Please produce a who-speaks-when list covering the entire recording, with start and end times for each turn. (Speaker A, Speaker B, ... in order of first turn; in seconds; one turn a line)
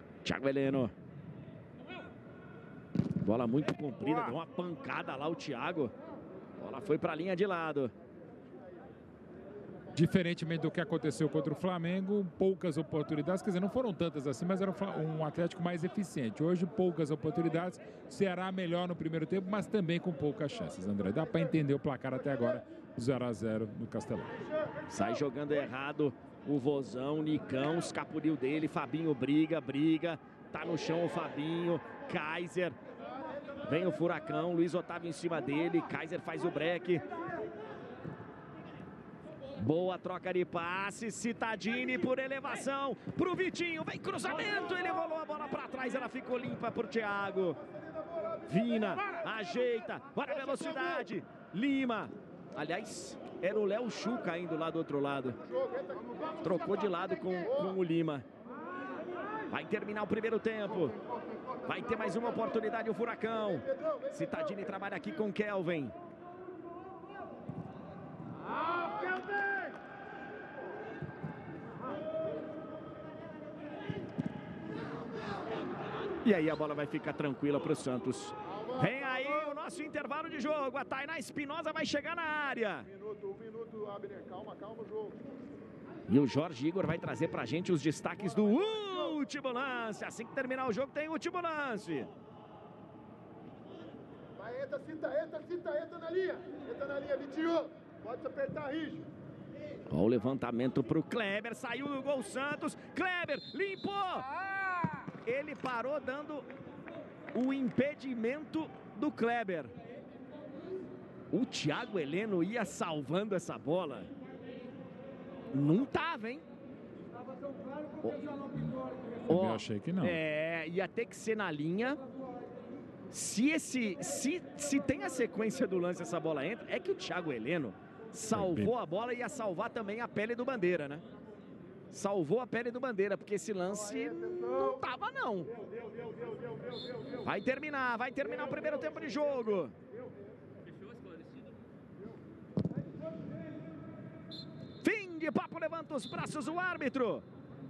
Speaker A: 0.2-0.9
Speaker A: 3.2-5.9
Speaker A: 6.6-7.9
Speaker B: 9.9-24.4
Speaker A: 24.9-32.8
Speaker A: 33.6-37.0
Speaker A: 39.6-47.6
Speaker A: 48.5-55.4
Speaker C: 55.5-56.4
Speaker A: 56.4-58.2
Speaker A: 59.5-61.0
Speaker A: 61.6-65.9
Speaker A: 76.2-82.9
Speaker C: 82.9-85.2
Speaker A: 86.1-92.1
Speaker C: 94.3-99.1
Speaker A: 99.9-104.3
Speaker A: 105.2-106.4
Speaker A: 107.3-109.7
Speaker A: 111.3-114.1
Speaker A: 115.5-116.4
Speaker B: 119.3-120.2
Speaker A: 119.3-122.0
Speaker A: 123.1-131.0
Speaker B: 128.3-128.7
Speaker A: 131.9-135.5
Speaker A: 137.2-139.8
Speaker A: 144.8-147.2